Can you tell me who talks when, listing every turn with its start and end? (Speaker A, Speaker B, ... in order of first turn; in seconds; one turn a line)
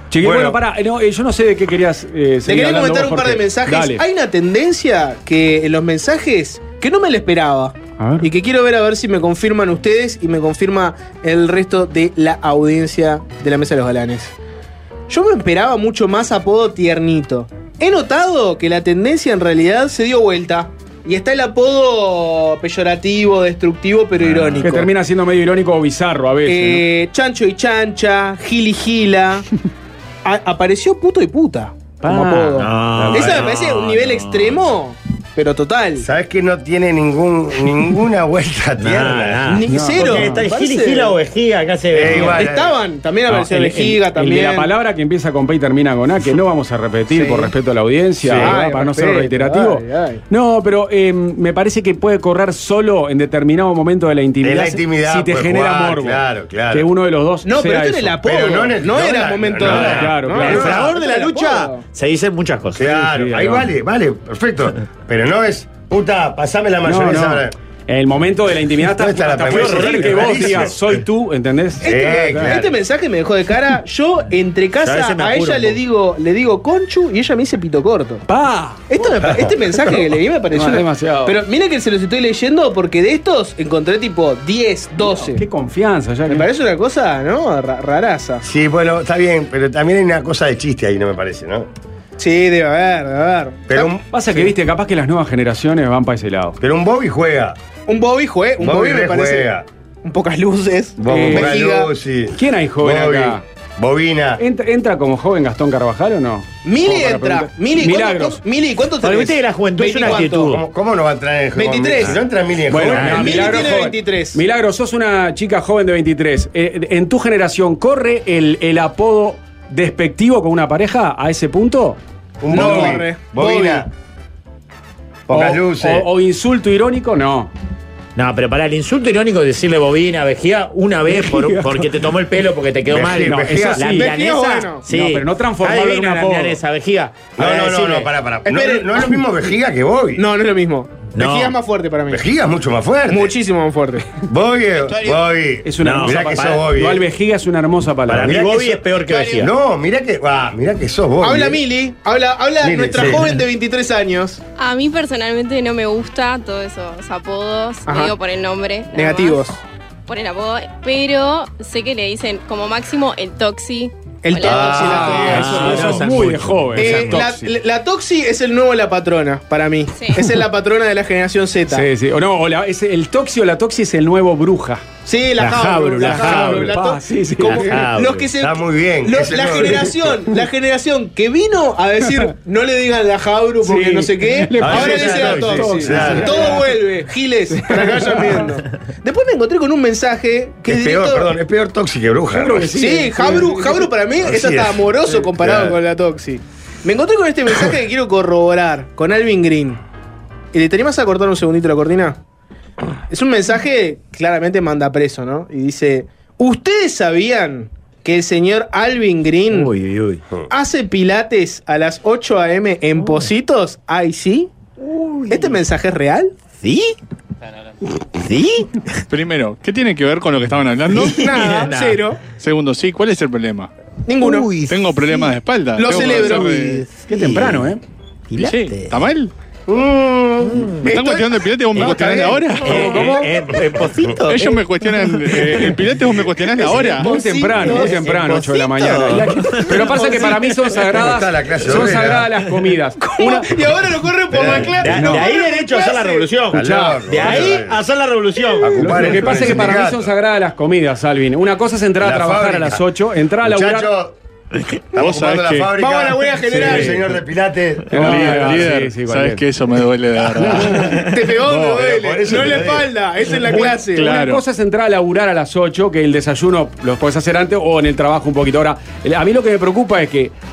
Speaker A: 0.1-4.0
Speaker B: 0.2-0.6
Speaker C: 2.5-14.3
Speaker A: 8.0-8.3
Speaker C: 15.1-24.9
Speaker D: 24.2-24.7
Speaker A: 24.6-26.8
Speaker C: 26.4-29.4
Speaker C: 30.2-36.0
Speaker A: 32.0-33.4
Speaker D: 32.6-34.6
Speaker B: 36.0-39.6
Speaker D: 38.8-42.5
Speaker C: 39.5-41.2
Speaker A: 39.7-40.5
Speaker B: 41.9-42.8
Speaker C: 42.2-44.7
Speaker A: 43.3-58.2
Speaker C: 47.1-47.5
Speaker B: 48.2-48.6
Speaker C: 48.3-50.2
Speaker B: 54.4-56.9
Speaker C: 57.4-61.8
Speaker B: 58.2-60.8
Speaker D: 59.6-62.8
Speaker A: 59.6-60.8
Speaker B: 62.7-67.5
Speaker A: 62.8-63.7
Speaker A: 66.8-72.5
Speaker B: 68.9-71.0
Speaker D: 69.5-70.7
Speaker B: 71.8-72.8
Speaker C: 71.8-78.2
Speaker D: 74.8-75.8
Speaker A: 78.3-79.3
Speaker C: 78.9-85.4
Speaker A: 80.5-81.4
Speaker A: 85.0-86.5
Speaker C: 86.3-88.5
Speaker B: 88.4-91.7
Speaker C: 92.2-93.9
Speaker B: 93.7-94.0
Speaker A: 94.1-96.6
Speaker B: 96.6-97.5
Speaker C: 97.9-99.5
Speaker B: 98.6-99.6
Speaker C: 100.0-101.9
Speaker B: 101.0-104.4
Speaker A: 101.0-101.5
Speaker A: 102.3-103.4
Speaker A: 104.4-108.4
Speaker C: 106.6-110.5
Speaker D: 109.0-110.6
Speaker B: 110.0-113.6
Speaker C: 111.5-112.2
Speaker A: 112.7-123.0
Speaker D: 112.9-113.6
Speaker C: 113.1-114.4
Speaker B: 122.4-123.9
Speaker C: 122.5-123.9
Speaker B: 125.3-126.1
Speaker A: 125.3-127.5
Speaker D: 128.2-138.1
Speaker A: 131.1-131.9
Speaker B: 132.9-133.8
Speaker A: 133.2-134.1
Speaker C: 133.9-134.8
Speaker A: 134.8-136.6
Speaker B: 137.4-140.2
Speaker C: 138.4-139.2
Speaker C: 140.2-142.2
Speaker D: 141.1-141.6
Speaker B: 142.1-143.3
Speaker C: 143.1-144.1
Speaker B: 144.2-147.1
Speaker A: 145.6-148.4
Speaker D: 145.8-146.7
Speaker D: 148.1-149.5
Speaker B: 148.2-148.8
Speaker C: 149.1-149.4
Speaker B: 149.3-151.6
Speaker C: 151.2-154.4
Speaker B: 152.6-153.3
Speaker E: 154.6-159.4
Speaker C: 157.9-158.1
Speaker C: 158.9-159.6
Speaker E: 160.1-165.0
Speaker C: 164.2-165.9
Speaker B: 164.4-166.1
Speaker A: 164.7-167.5
Speaker D: 165.1-166.9
Speaker C: 166.8-171.8
Speaker B: 166.8-167.3
Speaker E: 169.9-170.2
Speaker A: 171.7-174.8
Speaker C: 175.0-191.3
Speaker D: 175.4-176.7
Speaker A: 175.9-177.8
Speaker D: 177.4-178.3
Speaker B: 178.3-180.0
Speaker A: 183.6-186.7
Speaker B: 184.6-186.6
Speaker A: 187.5-188.5
Speaker B: 190.7-192.7
Speaker A: 192.3-193.9
Speaker C: 192.7-199.8
Speaker B: 194.2-195.8
Speaker C: 200.5-202.2
Speaker C: 203.1-209.7
Speaker D: 209.5-210.2
Speaker C: 210.5-214.5
Speaker D: 213.0-213.3
Speaker D: 214.8-215.6
Speaker C: 215.3-216.3
Speaker D: 216.6-216.9
Speaker D: 218.1-219.0
Speaker F: 219.1-221.3
Speaker D: 220.9-222.0
Speaker C: 221.1-222.2
Speaker F: 222.3-223.7
Speaker C: 224.1-224.6
Speaker D: 224.2-224.5
Speaker F: 224.7-226.8
Speaker C: 225.8-226.7
Speaker A: 226.0-227.8
Speaker D: 227.1-227.7
Speaker D: 228.3-228.9
Speaker F: 228.4-229.3
Speaker B: 229.7-230.7
Speaker D: 230.4-231.0
Speaker C: 230.8-231.4
Speaker F: 230.9-233.2
Speaker B: 231.7-233.2
Speaker D: 232.6-235.8
Speaker A: 232.7-233.2
Speaker F: 234.2-237.1
Speaker C: 236.6-238.0
Speaker A: 236.9-243.5
Speaker D: 237.5-240.4
Speaker B: 237.6-237.8
Speaker C: 239.8-240.3
Speaker B: 240.9-242.3
Speaker C: 243.1-246.3
Speaker B: 244.3-244.9
Speaker D: 244.4-249.6
Speaker A: 244.9-245.3
Speaker A: 246.5-247.3
Speaker B: 246.5-247.8
Speaker B: 248.6-250.1
Speaker A: 248.8-253.9
Speaker B: 252.0-252.8
Speaker B: 253.4-254.1
Speaker B: 254.9-258.6
Speaker F: 254.9-255.8
Speaker C: 255.8-257.0
Speaker A: 256.5-257.0
Speaker A: 257.9-259.4
Speaker F: 257.9-261.0
Speaker A: 260.4-261.0
Speaker C: 260.9-264.1
Speaker B: 261.4-262.9
Speaker A: 263.5-270.3
Speaker F: 263.9-264.4